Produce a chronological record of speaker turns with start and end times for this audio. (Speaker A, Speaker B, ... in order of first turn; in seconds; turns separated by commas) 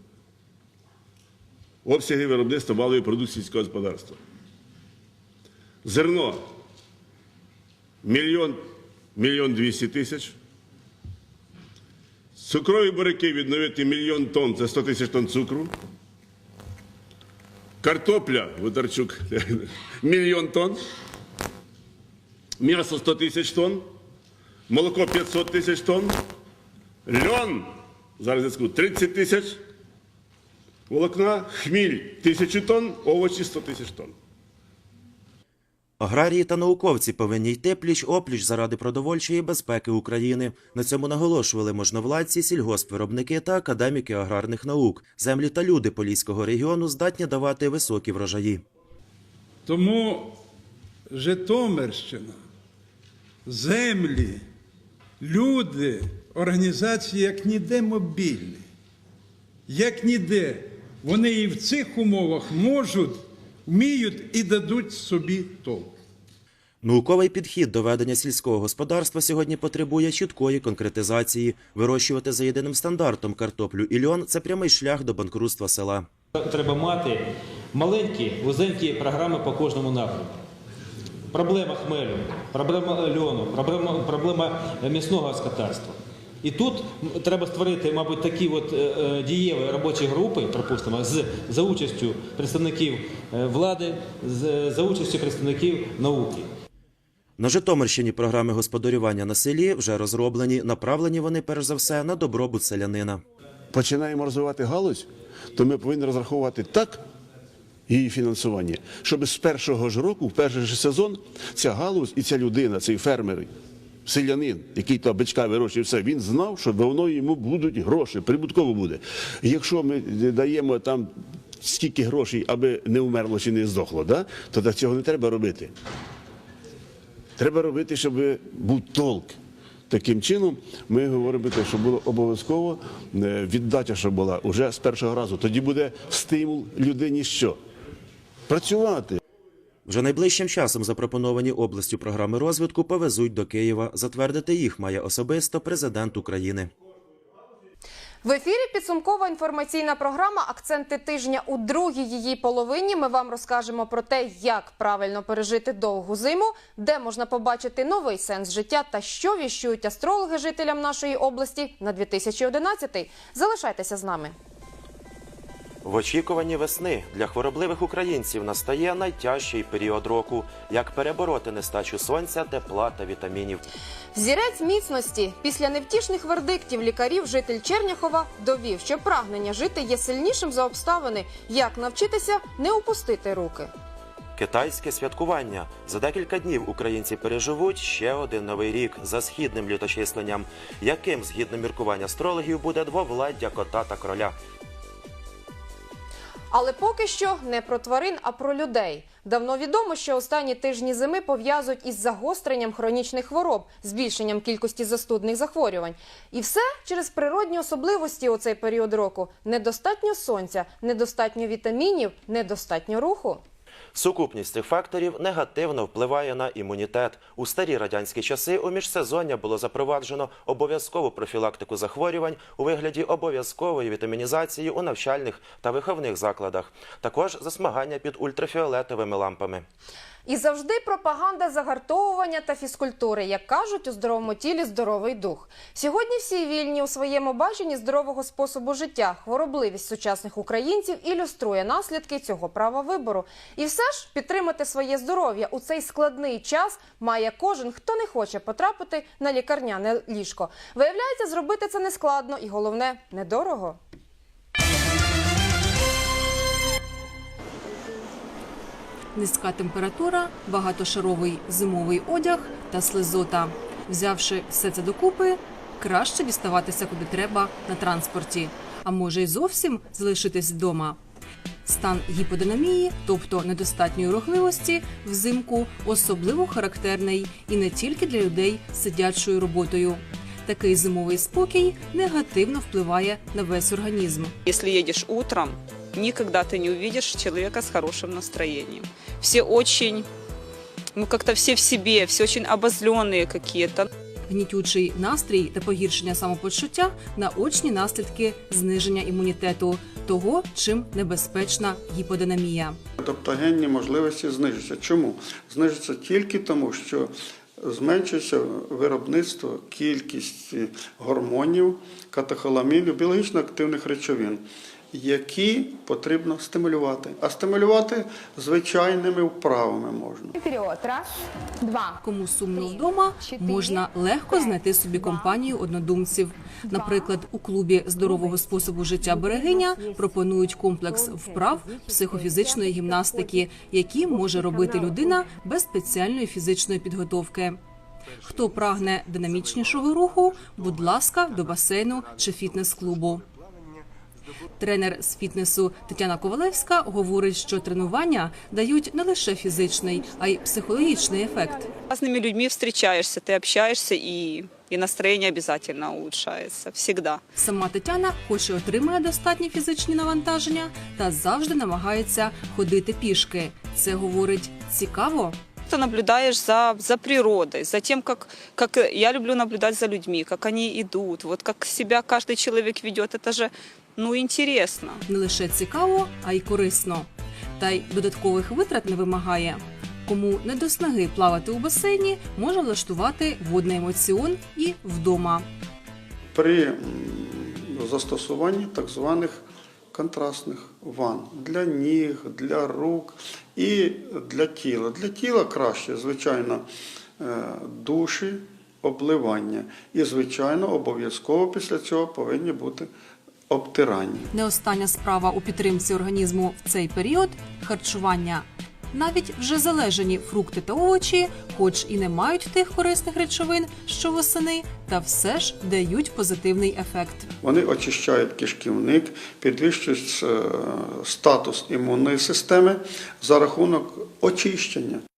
Speaker A: 1.9-4.2, Speaker A: 5.8-6.4, Speaker A: 8.0-8.6, Speaker A: 9.2-10.4, Speaker A: 12.4-15.7, Speaker A: 17.8-20.8, Speaker A: 22.6-23.9, Speaker A: 24.7-26.2, Speaker A: 27.1-29.6, Speaker A: 30.9-34.1, Speaker B: 36.0-48.6, Speaker C: 49.7-50.4, Speaker C: 51.1-52.4, Speaker C: 53.5-54.5, Speaker C: 55.2-58.7, Speaker C: 59.7-66.0, Speaker B: 66.8-76.1, Speaker D: 76.4-80.4, Speaker D: 81.3-96.5, Speaker B: 97.4-103.2, Speaker A: 103.7-107.0, Speaker A: 107.9-113.5, Speaker A: 114.0-125.7, Speaker A: 127.4-129.4, Speaker A: 129.9-137.6, Speaker A: 138.5-139.2, Speaker B: 139.9-146.7, Speaker E: 148.2-164.3, Speaker B: 165.8-173.6, Speaker E: 174.1-183.7, Speaker B: 184.4-194.4, Speaker E: 196.5-213.4, Speaker B: 213.9-229.7, Speaker E: 230.3-253.8, Speaker F: 259.1-271.0, Speaker F: 271.6-284.3, Speaker G: 284.4-290.1, Speaker G: 290.9-293.9, Speaker F: 294.3-302.8, Speaker H: 303.0-320.4, Speaker F: 322.0-337.6, Speaker F: 338.2-343.2, Speaker F: 344.6-351.7, Speaker G: 351.9-357.2, Speaker F: 357.4-365.4, Speaker G: 365.7-375.0, Speaker F: 375.1-385.5, Speaker H: 386.3-389.4, Speaker H: 389.9-396.7, Speaker H: 397.2-402.9, Speaker H: 403.5-404.3, Speaker F: 404.3-417.3, Speaker H: 417.4-425.0